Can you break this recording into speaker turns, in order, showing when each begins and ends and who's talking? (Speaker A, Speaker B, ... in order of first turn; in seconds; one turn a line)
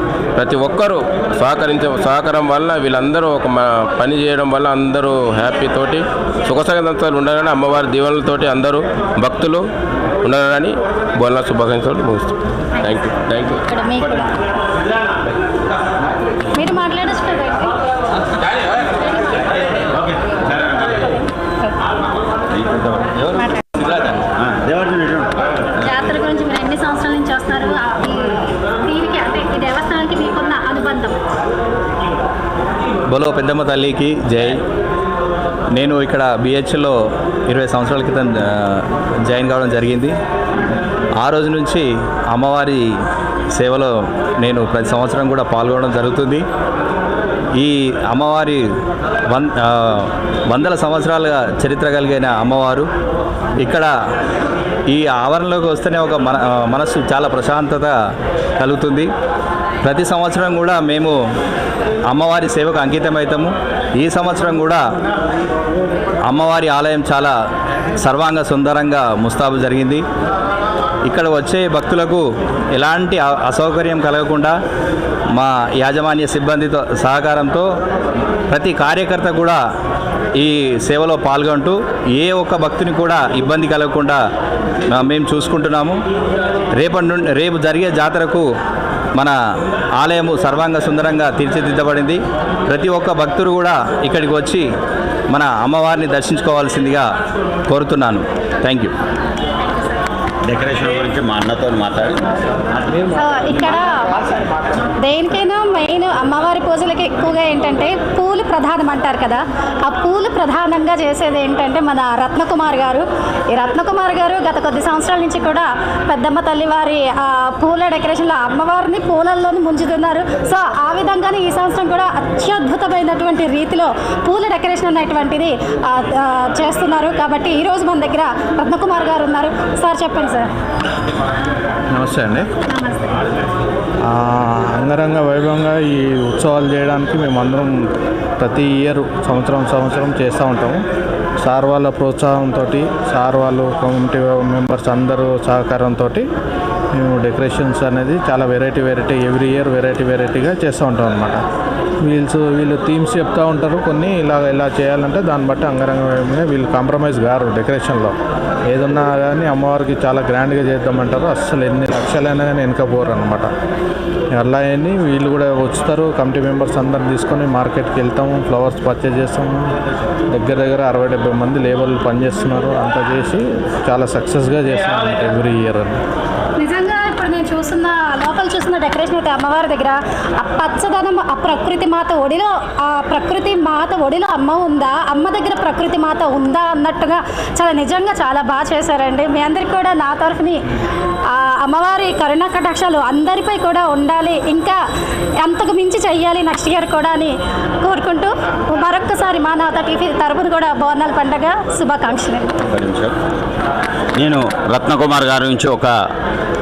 Speaker A: 0.3-9.7
Speaker A: 10.2-12.3
Speaker A: 12.8-13.6
Speaker B: 13.5-14.3
Speaker B: 16.5-17.8
Speaker B: 18.8-19.6
Speaker C: 19.9-21.0
Speaker C: 22.5-23.1
Speaker D: 23.2-24.2
Speaker B: 23.4-23.6
Speaker C: 24.4-25.6
Speaker B: 25.8-31.2
Speaker D: 33.1-34.6
Speaker D: 35.7-36.9
Speaker D: 37.5-40.1
Speaker D: 41.2-42.8
Speaker D: 43.5-46.4
Speaker D: 47.6-48.6
Speaker D: 49.3-52.9
Speaker D: 53.6-53.9
Speaker D: 54.9-58.0
Speaker D: 58.6-59.1
Speaker D: 59.8-61.1
Speaker D: 62.1-64.8
Speaker D: 66.2-67.3
Speaker D: 68.0-70.0
Speaker D: 71.0-74.5
Speaker D: 75.3-77.7
Speaker D: 78.5-79.6
Speaker D: 80.4-84.2
Speaker D: 84.9-86.0
Speaker D: 86.8-88.4
Speaker D: 90.0-94.6
Speaker D: 95.3-97.0
Speaker D: 97.7-98.9
Speaker C: 100.5-103.1
Speaker B: 103.2-104.1
Speaker B: 105.0-130.5
Speaker E: 131.9-132.5
Speaker B: 132.7-133.2
Speaker E: 134.1-137.7
Speaker E: 138.4-140.8
Speaker E: 141.4-146.2
Speaker E: 147.0-151.4
Speaker E: 152.1-158.1
Speaker E: 158.7-163.5
Speaker E: 164.3-169.7
Speaker E: 170.3-176.0
Speaker B: 176.6-190.6
Speaker B: 191.3-194.8
Speaker B: 195.4-202.5
Speaker C: 202.7-203.1
Speaker C: 204.2-205.9